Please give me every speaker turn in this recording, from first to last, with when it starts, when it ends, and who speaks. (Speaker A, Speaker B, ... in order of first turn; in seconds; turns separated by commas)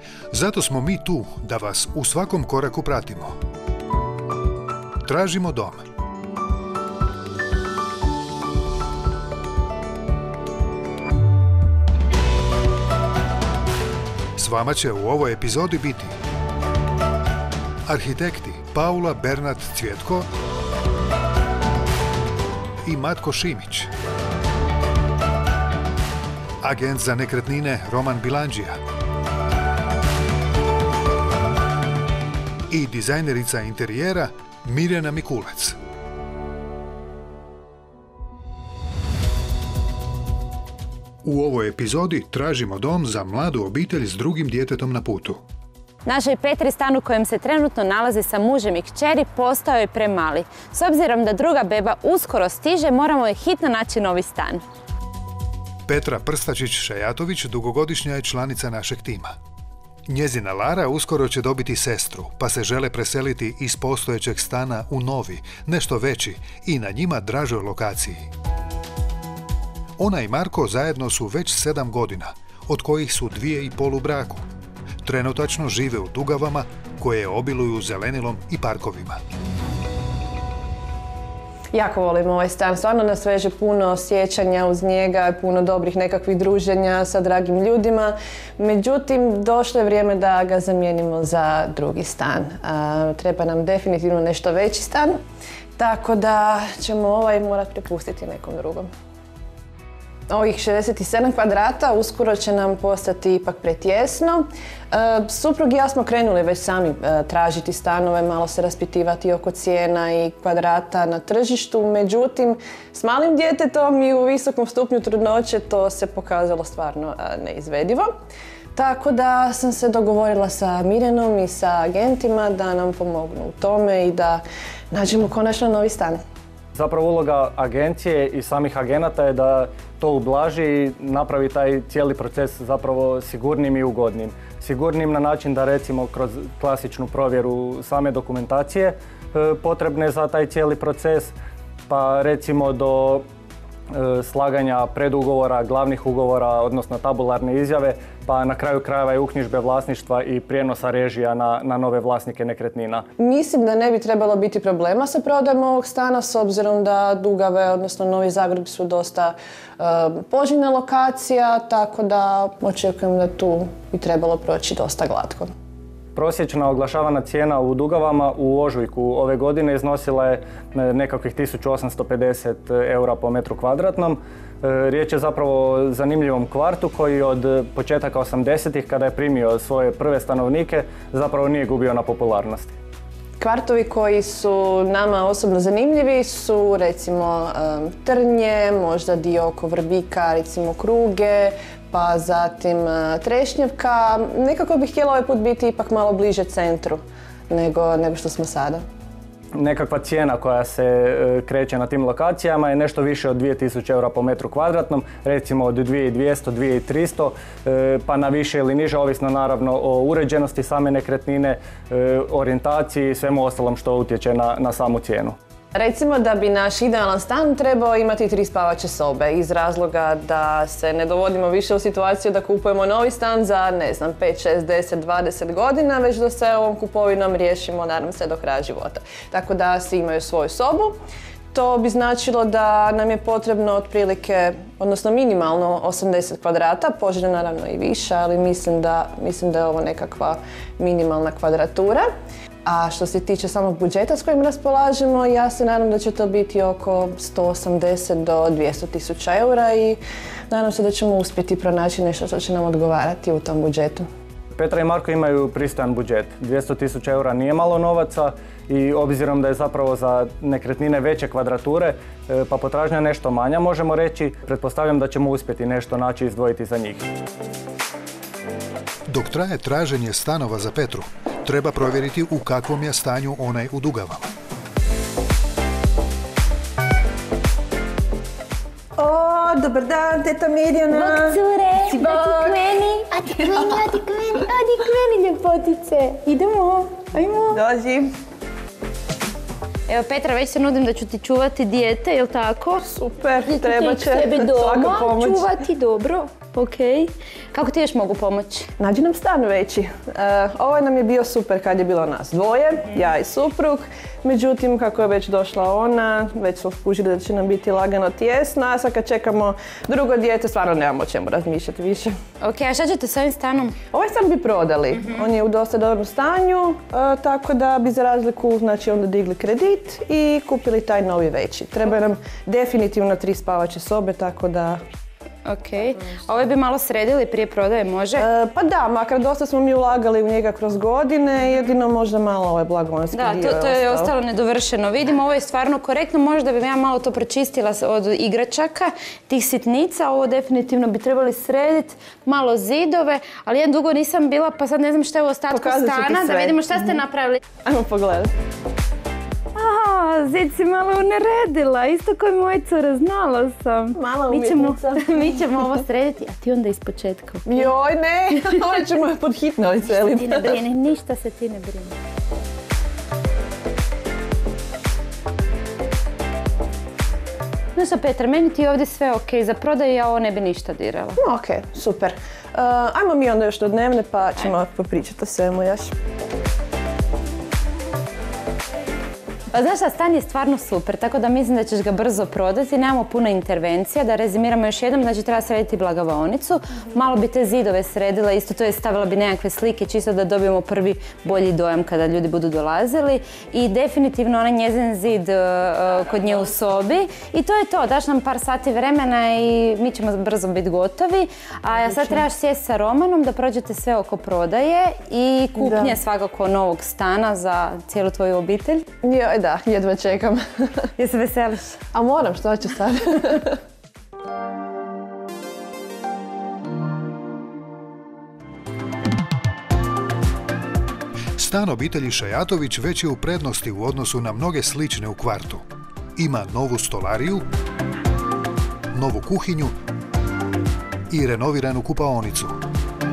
Speaker A: 0.3-3.4, Speaker A: 5.0-5.8, Speaker A: 14.4-16.1, Speaker A: 17.9-20.3, Speaker A: 22.8-23.9, Speaker A: 26.6-28.8, Speaker A: 32.7-35.8, Speaker A: 41.2-45.4, Speaker B: 46.0-54.6, Speaker A: 55.9-59.4, Speaker A: 60.1-68.3, Speaker A: 70.0-74.4, Speaker A: 75.0-79.2, Speaker C: 81.7-95.2, Speaker C: 95.8-98.9, Speaker C: 100.3-118.1, Speaker C: 118.7-126.2, Speaker D: 126.7-141.3, Speaker D: 141.9-143.2, Speaker D: 143.9-153.1, Speaker C: 153.2-165.5, Speaker D: 166.2-182.7, Speaker C: 183.4-198.8, Speaker D: 199.5-215.3, Speaker C: 215.7-231.0, Speaker C: 231.5-242.1, Speaker C: 242.7-254.1, Speaker D: 254.6-267.1, Speaker A: 269.1-274.3, Speaker C: 279.0-283.9, Speaker B: 280.9-287.6, Speaker C: 287.5-288.1, Speaker B: 289.9-292.9, Speaker C: 292.9-295.5, Speaker B: 293.4-298.7, Speaker C: 298.8-312.2, Speaker B: 312.4-313.8, Speaker C: 313.9-324.8, Speaker B: 325.4-328.2, Speaker C: 328.1-334.1, Speaker B: 333.1-347.4, Speaker C: 345.5-347.0, Speaker C: 347.6-348.3, Speaker B: 349.5-357.7, Speaker C: 353.9-355.4, Speaker C: 357.4-360.5, Speaker B: 359.9-361.9, Speaker B: 367.7-371.2, Speaker C: 371.2-375.9, Speaker B: 379.5-408.9, Speaker C: 401.7-402.2, Speaker C: 405.6-406.0, Speaker C: 409.0-410.9, Speaker B: 411.0-411.8, Speaker C: 411.9-413.6, Speaker A: 421.4-427.4, Speaker A: 428.9-429.8, Speaker A: 431.1-432.6